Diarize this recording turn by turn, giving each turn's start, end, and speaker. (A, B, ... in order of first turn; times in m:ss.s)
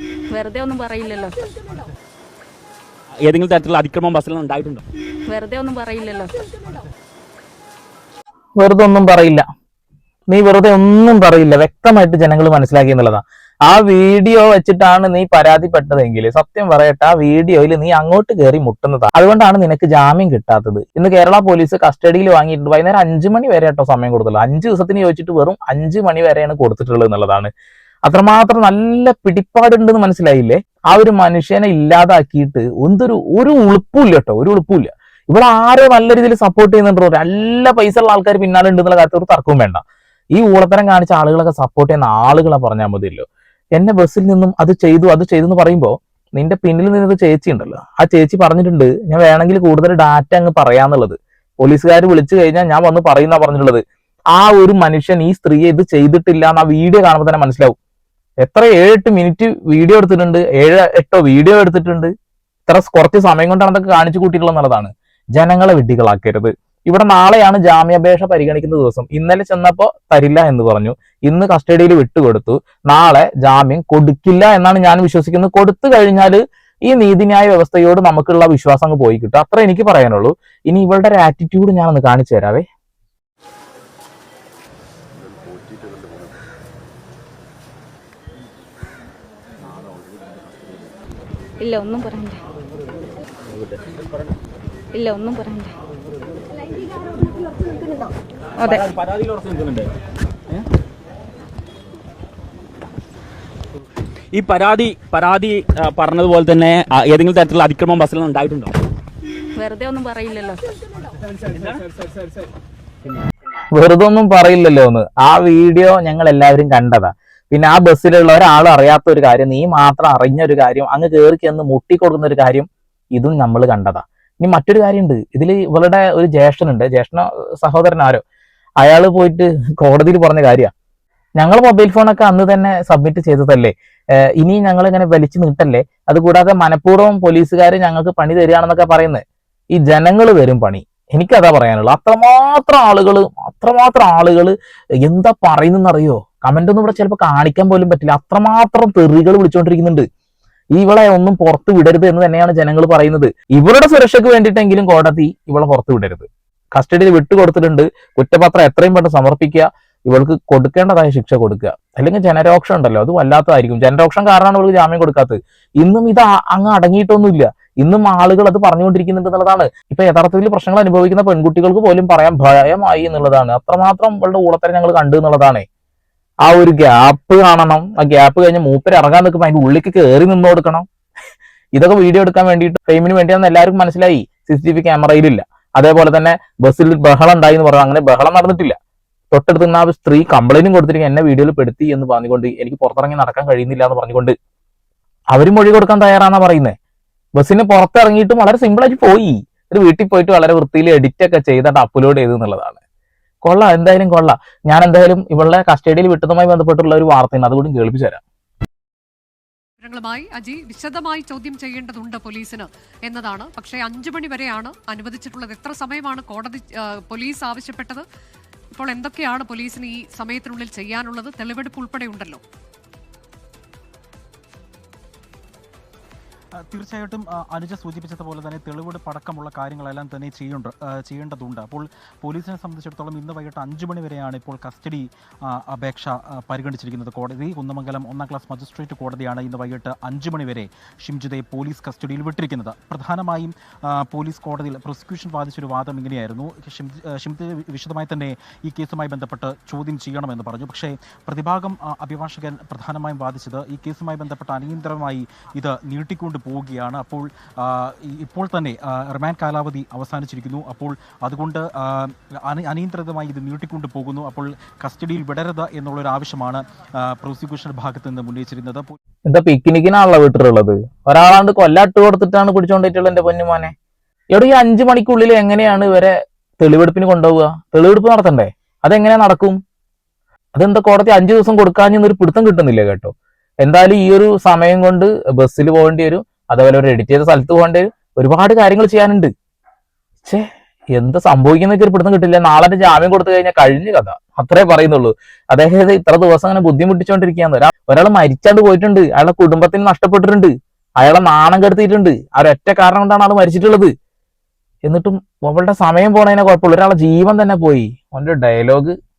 0:00.3-0:01.8 A
0:03.2-0:04.8 B
0:05.3-0:06.8 A
0:08.6-0:09.5 C
0:10.3-0:27.5 C
0:28.1-0:39.8 C
0:40.3-0:53.8 C
0:54.4-0:57.8 C
0:58.4-1:02.1 C
1:02.7-1:22.6 C
1:31.6-1:32.4 A
1:33.5-1:33.8 B
1:34.9-1:35.7 A
1:38.6-1:39.9 B
1:44.3-1:48.7 B
1:49.6-1:50.7 A
1:53.7-2:08.2 C
2:08.8-2:10.7 C
2:11.4-2:30.0 C
2:30.8-2:55.6 C
2:56.4-3:00.8 C
3:01.7-3:08.8 C
3:09.3-3:14.3 C
3:15.3-3:16.7 C
3:17.4-3:22.8 C
3:23.4-3:28.2 C
3:29.8-3:38.0 D
3:38.7-3:42.4 D
3:46.6-4:29.0 E
4:29.3-4:33.7 C
4:34.3-4:39.6 C
4:40.6-4:49.3 C
4:50.2-5:03.9 C
5:04.9-5:08.9 C